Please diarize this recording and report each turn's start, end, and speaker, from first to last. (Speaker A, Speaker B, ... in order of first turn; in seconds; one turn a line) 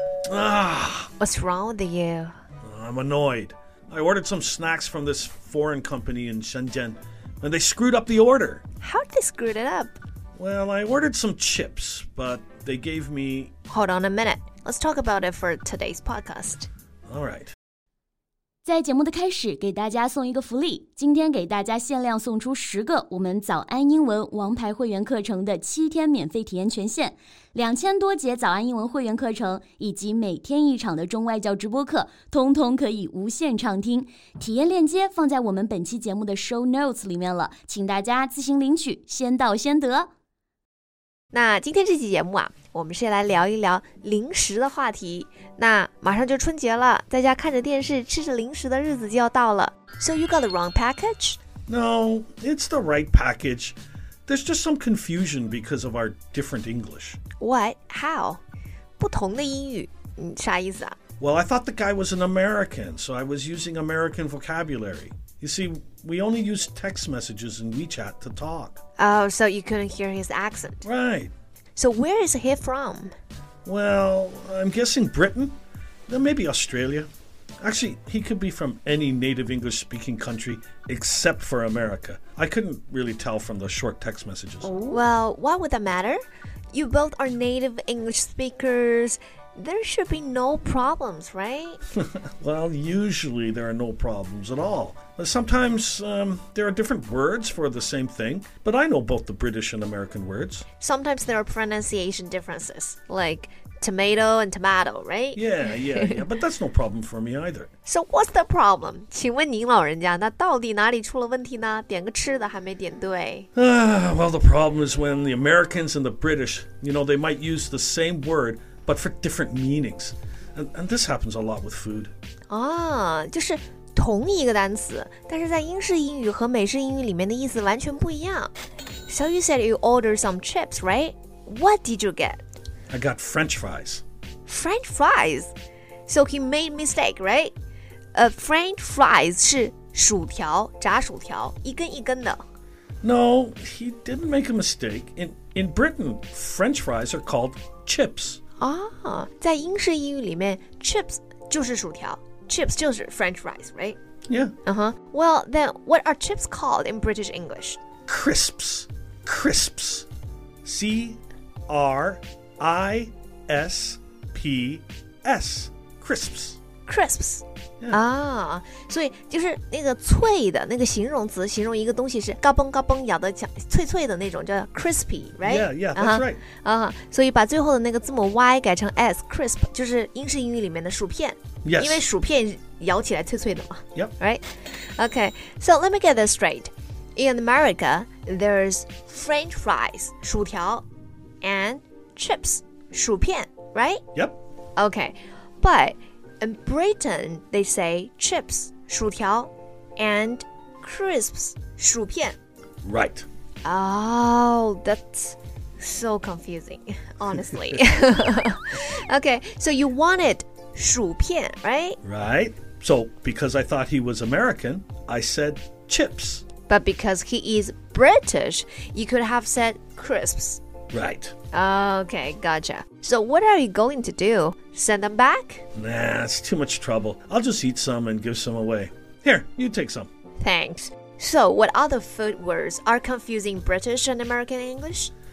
Speaker A: 0.3-1.1
Speaker B: 1.2-2.3
Speaker A: 2.6-8.6
Speaker B: 8.8-10.0
Speaker A: 10.3-13.5
Speaker B: 13.7-16.7
Speaker A: 17.1-17.5
Speaker C: 18.6-40.1
Speaker B: 41.3-51.4
Speaker A: 51.7-57.2
Speaker B: 57.4-58.4
Speaker B: 59.0-61.0
Speaker A: 61.2-68.8
Speaker B: 69.0-70.9
Speaker A: 70.8-71.3
Speaker B: 71.8-73.1
Speaker A: 73.6-75.5
Speaker A: 76.1-77.1
Speaker A: 77.6-84.8
Speaker B: 84.9-86.2
Speaker B: 86.7-91.8
Speaker A: 92.0-100.6
Speaker B: 100.8-106.2
Speaker A: 105.3-107.7
Speaker B: 107.8-113.5
Speaker A: 113.5-122.1
Speaker B: 122.5-128.5
Speaker B: 129.1-132.4
Speaker A: 132.9-134.0
Speaker B: 134.5-135.5
Speaker B: 136.1-137.5
Speaker B: 138.1-142.4
Speaker A: 143.0-148.4
Speaker B: 148.6-154.0
Speaker A: 154.3-154.5
Speaker B: 154.6-157.8
Speaker A: 158.1-160.1
Speaker A: 160.6-166.6
Speaker B: 166.9-190.8
Speaker A: 175.4-176.4
Speaker A: 181.6-182.1
Speaker B: 191.4-194.0
Speaker B: 194.8-202.4
Speaker A: 202.8-203.2
Speaker B: 203.6-212.0
Speaker A: 212.0-216.4
Speaker B: 216.7-220.6
Speaker A: 220.9-221.3
Speaker B: 221.5-225.6
Speaker A: 225.7-230.1
Speaker B: 230.4-235.1